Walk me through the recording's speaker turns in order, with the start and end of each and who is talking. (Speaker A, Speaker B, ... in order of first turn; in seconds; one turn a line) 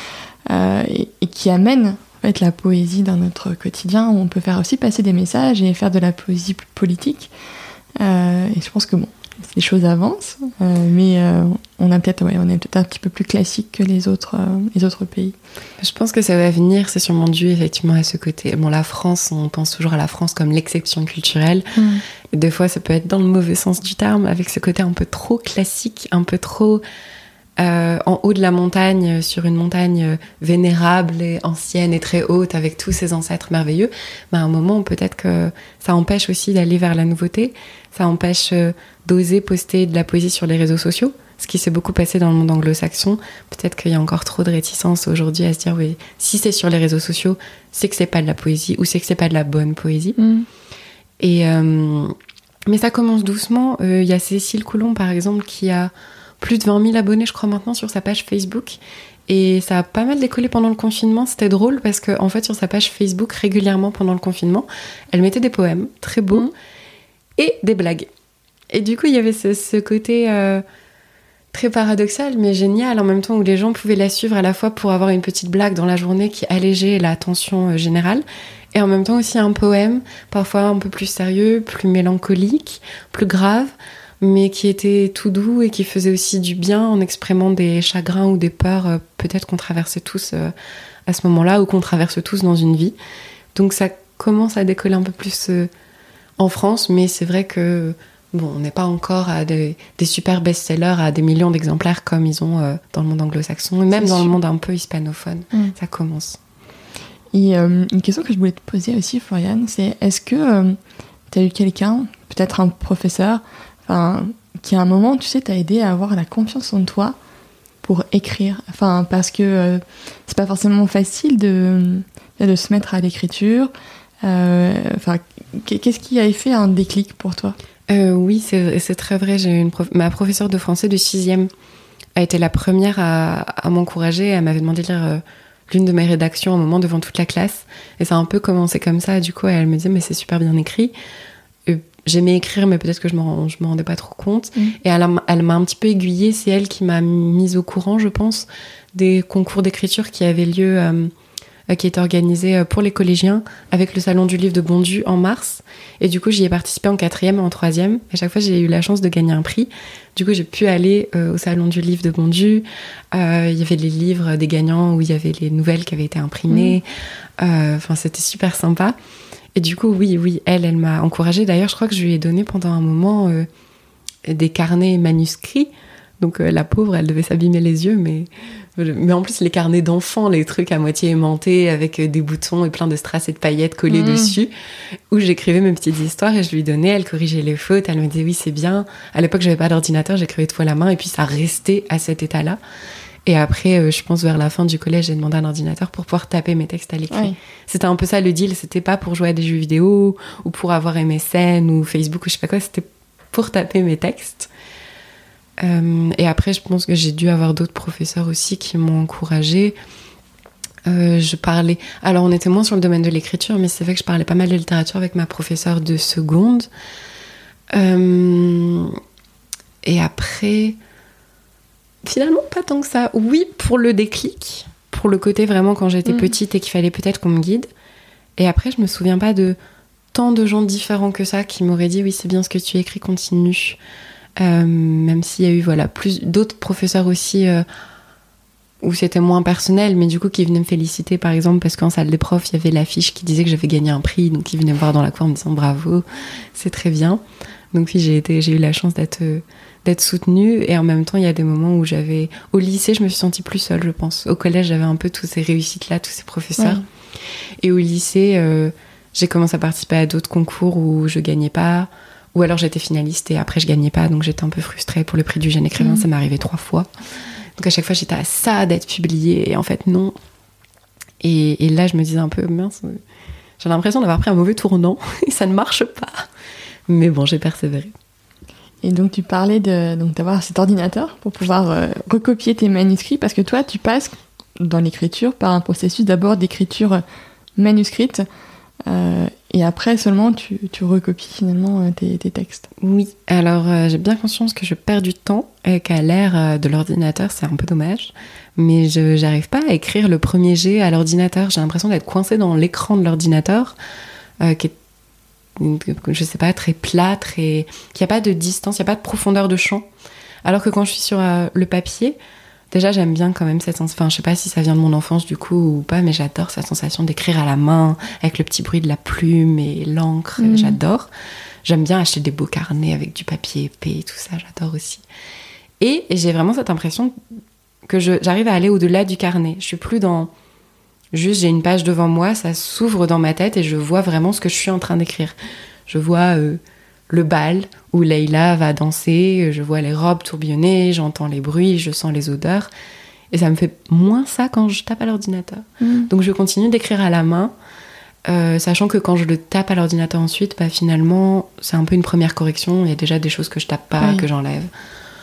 Speaker A: 0.5-7.3
Speaker A: 8.0-15.3
Speaker B: 15.8-21.8
Speaker A: 21.8-22.0
Speaker B: 22.3-26.8
Speaker B: 27.6-50.2
Speaker A: 50.2-50.5
Speaker B: 51.2-52.1
Speaker B: 52.7-66.5
Speaker B: 67.4-68.1
Speaker B: 68.7-70.6
Speaker B: 71.5-90.5
Speaker B: 91.1-93.0
Speaker B: 93.5-95.7
Speaker B: 96.4-106.4
Speaker A: 103.9-104.3
Speaker A: 107.3-110.8
Speaker A: 111.3-117.2
Speaker A: 117.8-123.7
Speaker A: 124.2-127.6
Speaker B: 127.9-131.5
Speaker B: 132.2-140.9
Speaker B: 141.7-151.1
Speaker B: 151.7-166.8
Speaker A: 166.5-166.8
Speaker B: 167.4-168.9
Speaker B: 169.5-173.5
Speaker B: 174.3-184.5
Speaker A: 183.9-184.3
Speaker B: 185.1-192.6
Speaker B: 193.2-204.5
Speaker A: 197.1-197.4
Speaker B: 205.6-209.8
Speaker B: 210.8-216.7
Speaker B: 217.7-219.0
Speaker B: 219.8-220.8
Speaker B: 222.0-227.7
Speaker B: 228.4-229.6
Speaker B: 230.1-233.8
Speaker B: 234.4-237.6
Speaker B: 238.8-247.2
Speaker B: 247.7-256.8
Speaker A: 256.6-256.8
Speaker B: 257.6-266.9
Speaker A: 265.8-266.0
Speaker B: 267.6-270.1
Speaker B: 271.2-273.0
Speaker B: 273.6-276.2
Speaker B: 276.9-277.9
Speaker A: 278.8-287.0
Speaker A: 287.6-288.2
Speaker A: 288.9-292.7
Speaker B: 292.8-303.8
Speaker B: 304.4-304.7
Speaker B: 305.6-309.9
Speaker B: 310.4-312.2
Speaker B: 312.7-321.1
Speaker A: 320.4-320.8
Speaker B: 321.6-325.0
Speaker B: 325.8-327.1
Speaker B: 327.9-330.3
Speaker B: 331.1-335.3
Speaker B: 335.9-342.7
Speaker B: 343.3-347.5
Speaker A: 345.8-346.1
Speaker B: 348.3-354.7
Speaker A: 354.0-354.2